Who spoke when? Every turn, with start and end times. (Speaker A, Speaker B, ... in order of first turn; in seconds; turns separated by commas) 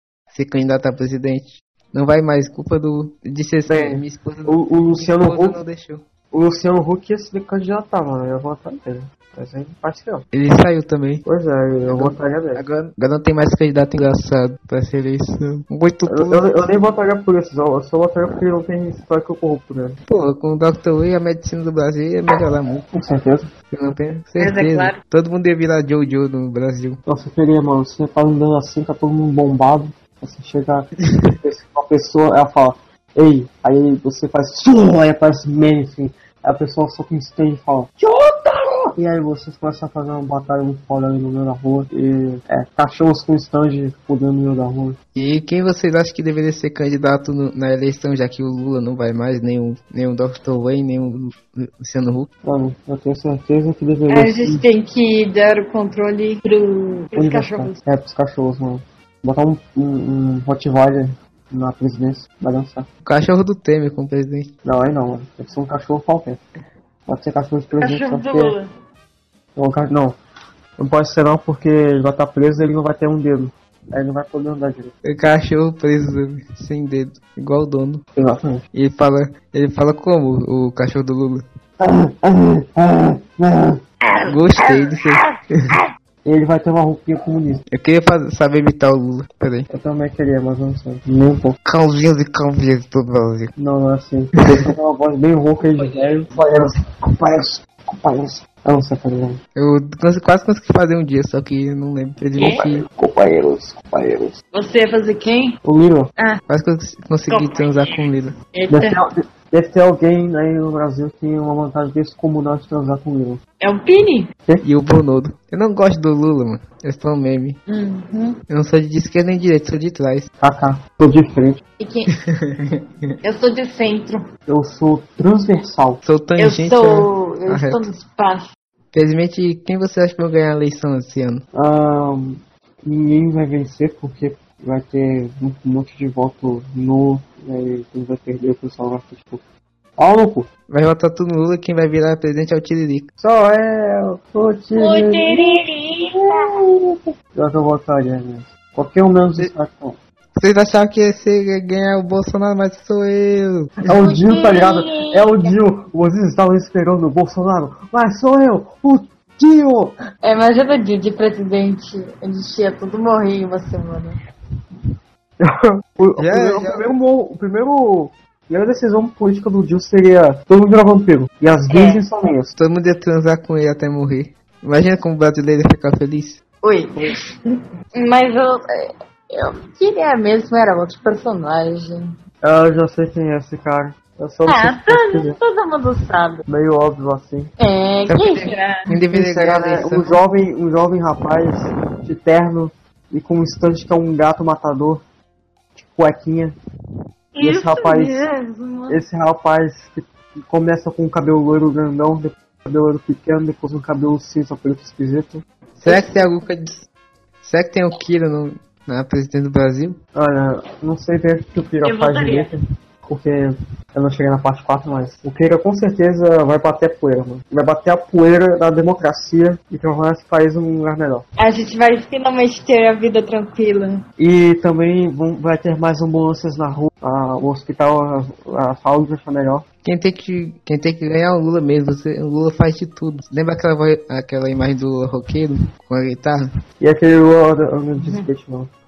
Speaker A: 0.3-6.0, Speaker B: 3.7-5.6, Speaker B: 6.3-10.2, Speaker A: 10.3-11.2, Speaker B: 11.2-12.6, Speaker A: 11.9-16.7, Speaker B: 16.1-20.0, Speaker A: 20.1-22.9, Speaker B: 22.9-23.5, Speaker A: 23.7-27.0, Speaker C: 24.4-25.0, Speaker B: 27.1-30.9, Speaker A: 31.0-31.4, Speaker B: 31.4-45.0, Speaker A: 45.1-52.3, Speaker B: 52.4-54.6, Speaker C: 54.1-57.8, Speaker B: 57.1-62.9, Speaker A: 63.0-64.5, Speaker B: 64.6-66.4, Speaker B: 67.1-68.5, Speaker C: 67.8-68.7, Speaker B: 69.5-70.2, Speaker B: 70.8-74.9, Speaker A: 75.0-78.0, Speaker B: 78.1-78.6, Speaker A: 78.7-81.4, Speaker B: 81.8-83.8, Speaker A: 84.2-85.7, Speaker B: 86.2-87.6, Speaker A: 87.7-89.7, Speaker B: 89.7-91.6, Speaker A: 91.6-93.5, Speaker B: 93.5-99.4, Speaker A: 94.4-94.7, Speaker A: 99.5-102.8, Speaker B: 102.4-104.3, Speaker C: 104.5-105.6, Speaker B: 105.6-106.1, Speaker A: 106.5-108.3, Speaker C: 107.3-108.0, Speaker C: 108.5-109.0, Speaker B: 108.7-113.4, Speaker C: 113.6-114.3, Speaker A: 114.6-117.6, Speaker C: 117.7-118.4, Speaker A: 118.5-120.3, Speaker B: 120.4-121.6, Speaker C: 121.8-122.1, Speaker A: 122.2-123.1, Speaker C: 123.2-124.2, Speaker B: 124.5-126.0, Speaker A: 126.0-127.8, Speaker C: 126.4-128.4, Speaker A: 128.9-131.4, Speaker B: 131.5-139.4, Speaker B: 140.0-140.5, Speaker A: 140.7-143.1, Speaker B: 143.2-145.6, Speaker C: 144.8-146.5, Speaker B: 146.3-149.9, Speaker A: 150.3-153.7, Speaker B: 153.8-159.9, Speaker C: 153.9-155.5, Speaker C: 160.2-164.2, Speaker B: 165.4-172.5, Speaker A: 166.2-166.8, Speaker C: 171.7-172.0, Speaker A: 172.6-176.4, Speaker C: 176.6-182.1, Speaker B: 182.4-185.4, Speaker C: 184.5-186.4, Speaker B: 186.5-187.5, Speaker C: 187.6-188.8, Speaker A: 188.1-190.2, Speaker B: 189.1-195.0, Speaker B: 195.7-196.5, Speaker C: 197.3-199.0, Speaker B: 197.4-198.2, Speaker B: 198.9-205.4, Speaker A: 205.8-206.8, Speaker C: 205.8-206.2, Speaker A: 207.4-210.0, Speaker B: 210.1-221.2, Speaker C: 211.8-212.5, Speaker C: 221.4-224.0, Speaker B: 224.2-229.6, Speaker A: 229.8-236.4, Speaker B: 236.8-238.7, Speaker C: 238.0-238.3